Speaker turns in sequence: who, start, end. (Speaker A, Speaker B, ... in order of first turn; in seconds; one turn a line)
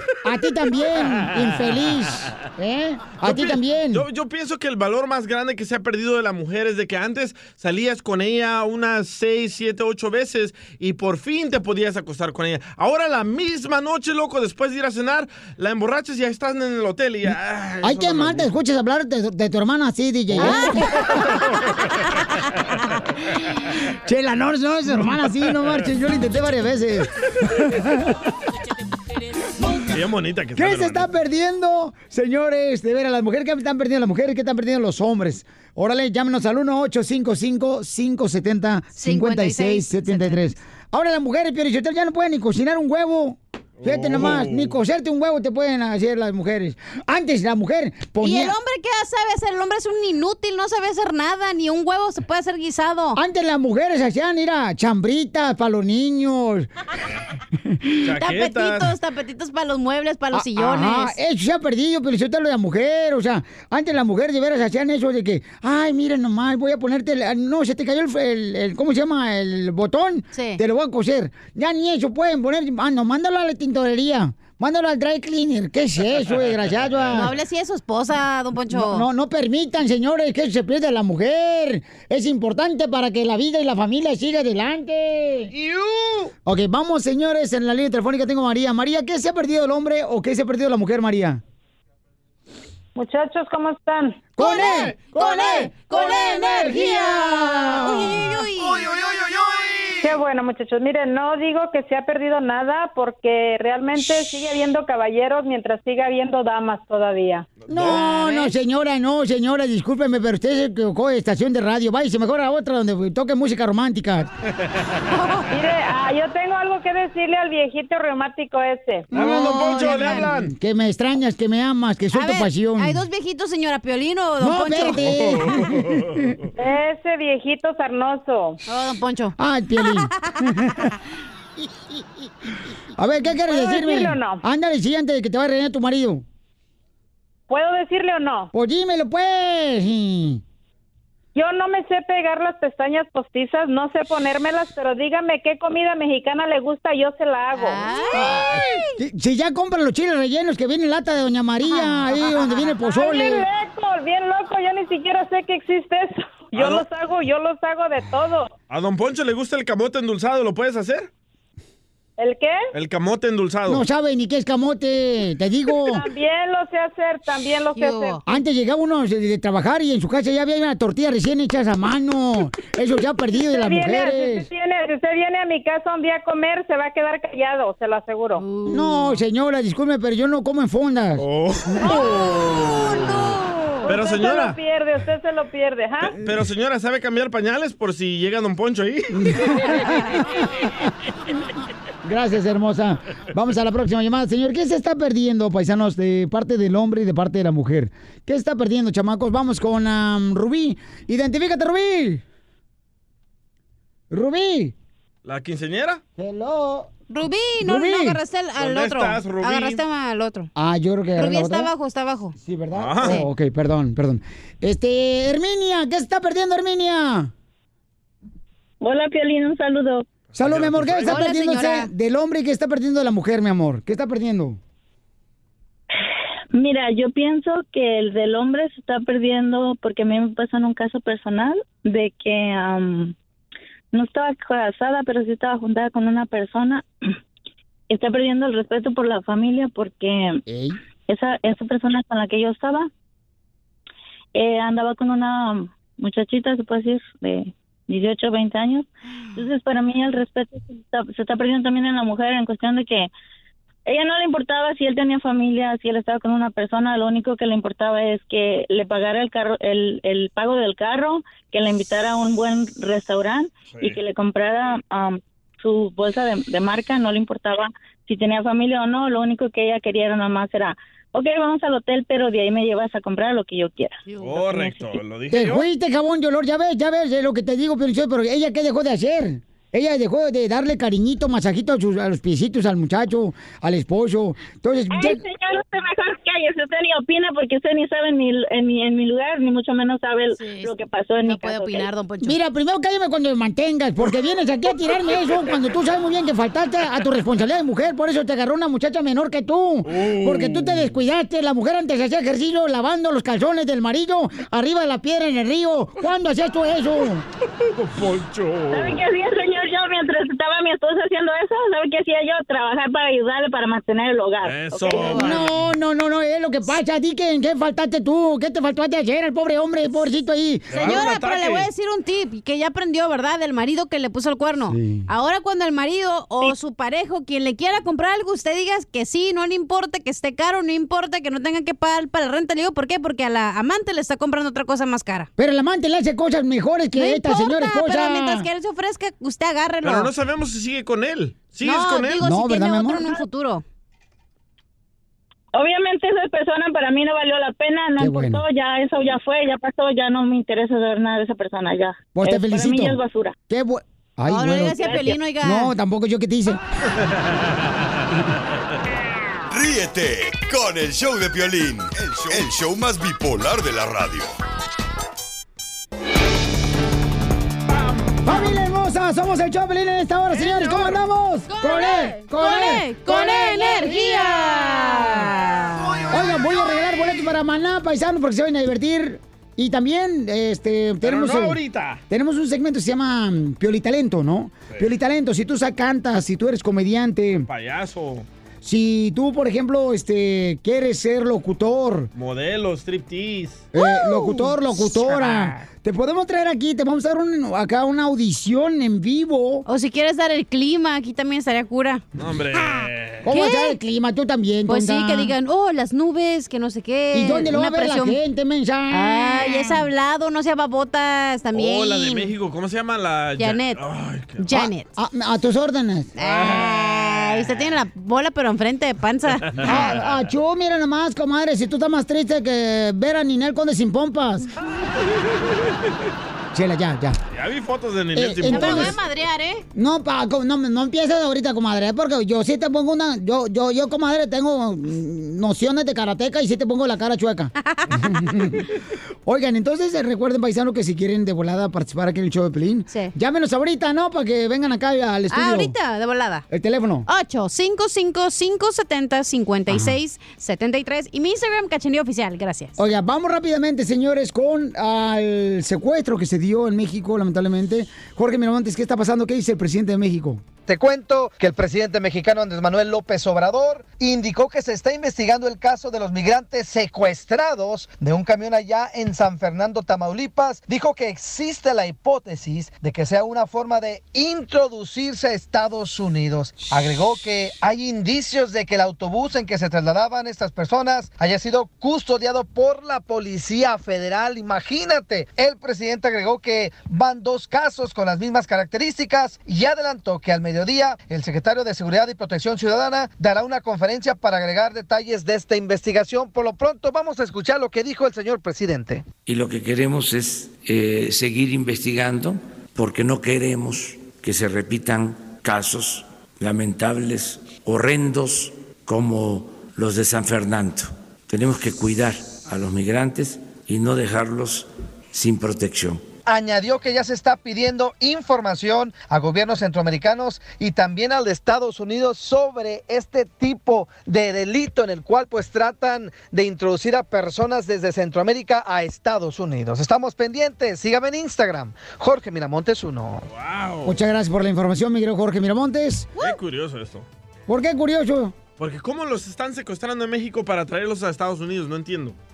Speaker A: 0.2-4.1
Speaker B: 3.2-18.5
Speaker A: 17.8-21.2
Speaker C: 20.4-20.7
Speaker A: 24.0-28.1
Speaker B: 29.8-31.1
Speaker A: 30.6-48.6
Speaker C: 38.9-40.4
Speaker B: 43.8-44.8
Speaker C: 48.2-53.2
Speaker A: 53.1-56.7
Speaker B: 58.0-59.0
Speaker C: 58.1-61.2
Speaker A: 60.3-77.4
Speaker C: 70.3-70.6
Speaker C: 77.1-79.1
Speaker A: 78.7-85.5
Speaker B: 85.5-86.3
Speaker A: 86.5-91.4
Speaker D: 93.0-94.3
Speaker A: 94.4-98.3
Speaker C: 94.4-98.9
Speaker D: 100.0-107.5
Speaker B: 107.6-108.1
Speaker A: 107.7-114.3
Speaker C: 107.9-108.6
Speaker C: 115.1-115.5
Speaker D: 115.5-119.1
Speaker A: 119.1-123.0
Speaker B: 119.1-120.5
Speaker C: 119.3-120.3
Speaker C: 122.1-125.1
Speaker A: 124.4-126.3
Speaker B: 125.0-126.3
Speaker D: 126.6-128.6
Speaker C: 128.7-130.5
Speaker A: 129.4-130.9
Speaker A: 132.9-136.2
Speaker D: 133.5-134.4
Speaker D: 137.5-138.5
Speaker A: 138.5-140.4
Speaker D: 141.3-147.9
Speaker C: 147.5-148.9
Speaker A: 148.1-153.5
Speaker C: 151.6-152.8
Speaker D: 152.8-158.5
Speaker B: 156.6-156.9
Speaker B: 158.7-161.1
Speaker D: 162.2-162.6
Speaker B: 162.7-163.8
Speaker A: 163.7-166.1
Speaker D: 165.9-168.2
Speaker C: 167.7-168.2
Speaker A: 168.2-174.5
Speaker D: 173.6-178.4
Speaker C: 178.4-179.2
Speaker A: 178.7-181.3
Speaker B: 181.2-183.3
Speaker C: 181.8-183.9
Speaker B: 183.9-184.6
Speaker D: 183.9-186.2
Speaker B: 186.0-189.5
Speaker A: 189.1-190.9
Speaker A: 192.0-202.2
Speaker A: 204.1-204.7
Speaker B: 205.2-206.0
Speaker A: 206.2-206.9
Speaker C: 207.1-210.5
Speaker A: 207.6-208.2
Speaker B: 208.6-209.8
Speaker A: 210.6-211.7
Speaker C: 211.2-212.3
Speaker A: 212.4-217.3
Speaker B: 212.7-213.2
Speaker C: 213.0-213.3
Speaker E: 218.8-220.1
Speaker B: 220.3-221.2
Speaker A: 220.4-224.6
Speaker C: 221.0-221.9
Speaker E: 226.5-233.2
Speaker E: 233.9-236.9
Speaker E: 237.9-240.4
Speaker A: 240.5-240.8
Speaker E: 241.1-242.9
Speaker E: 244.3-253.1
Speaker E: 253.9-274.0
Speaker B: 263.7-264.0
Speaker C: 274.1-274.9
Speaker B: 274.2-275.7
Speaker A: 275.3-285.2
Speaker E: 284.9-291.9
Speaker C: 290.3-292.4
Speaker A: 292.2-307.2
Speaker B: 299.9-300.9
Speaker B: 307.7-309.0
Speaker E: 308.7-315.2
Speaker B: 314.4-315.7
Speaker C: 315.0-315.3
Speaker A: 315.1-320.9
Speaker B: 320.7-321.7
Speaker C: 320.7-335.3
Speaker A: 324.7-325.1
Speaker A: 335.4-338.5
Speaker C: 336.9-340.1
Speaker B: 339.8-342.2
Speaker C: 341.6-343.6
Speaker A: 342.2-343.2
Speaker E: 345.6-353.4
Speaker A: 348.0-348.4
Speaker A: 352.1-356.6
Speaker C: 354.3-355.7
Speaker E: 354.8-355.2
Speaker F: 359.5-364.3
Speaker B: 367.9-368.1
Speaker A: 368.2-374.0
Speaker C: 371.5-376.1
Speaker A: 376.1-387.5
Speaker B: 381.0-382.0
Speaker B: 387.5-388.3
Speaker A: 388.6-392.1
Speaker B: 392.2-393.7
Speaker A: 393.7-399.7
Speaker C: 393.8-394.5
Speaker B: 395.0-395.6
Speaker C: 399.7-402.0
Speaker B: 402.2-403.3
Speaker A: 403.2-405.3
Speaker C: 403.3-403.8
Speaker C: 404.7-408.2
Speaker A: 407.1-409.7
Speaker C: 408.9-412.3
Speaker B: 411.5-414.6
Speaker C: 413.4-413.8
Speaker C: 414.4-414.9
Speaker A: 414.5-416.1
Speaker C: 416.2-419.9
Speaker B: 416.2-417.8
Speaker B: 419.5-420.0
Speaker A: 419.6-424.5
Speaker A: 426.5-427.2
Speaker B: 427.3-429.0
Speaker A: 428.1-429.0
Speaker C: 428.4-429.6
Speaker A: 429.8-438.7
Speaker C: 437.7-437.9
Speaker A: 439.3-445.8
Speaker C: 445.3-446.5
Speaker A: 446.5-447.1
Speaker C: 447.1-452.8
Speaker A: 449.7-450.0
Speaker A: 452.8-460.4
Speaker G: 460.7-499.1
Speaker H: 499.2-516.0
Speaker G: 516.3-533.3
Speaker B: 533.3-534.0
Speaker A: 533.9-536.1
Speaker B: 536.2-537.1
Speaker A: 537.5-538.4
Speaker B: 538.6-542.2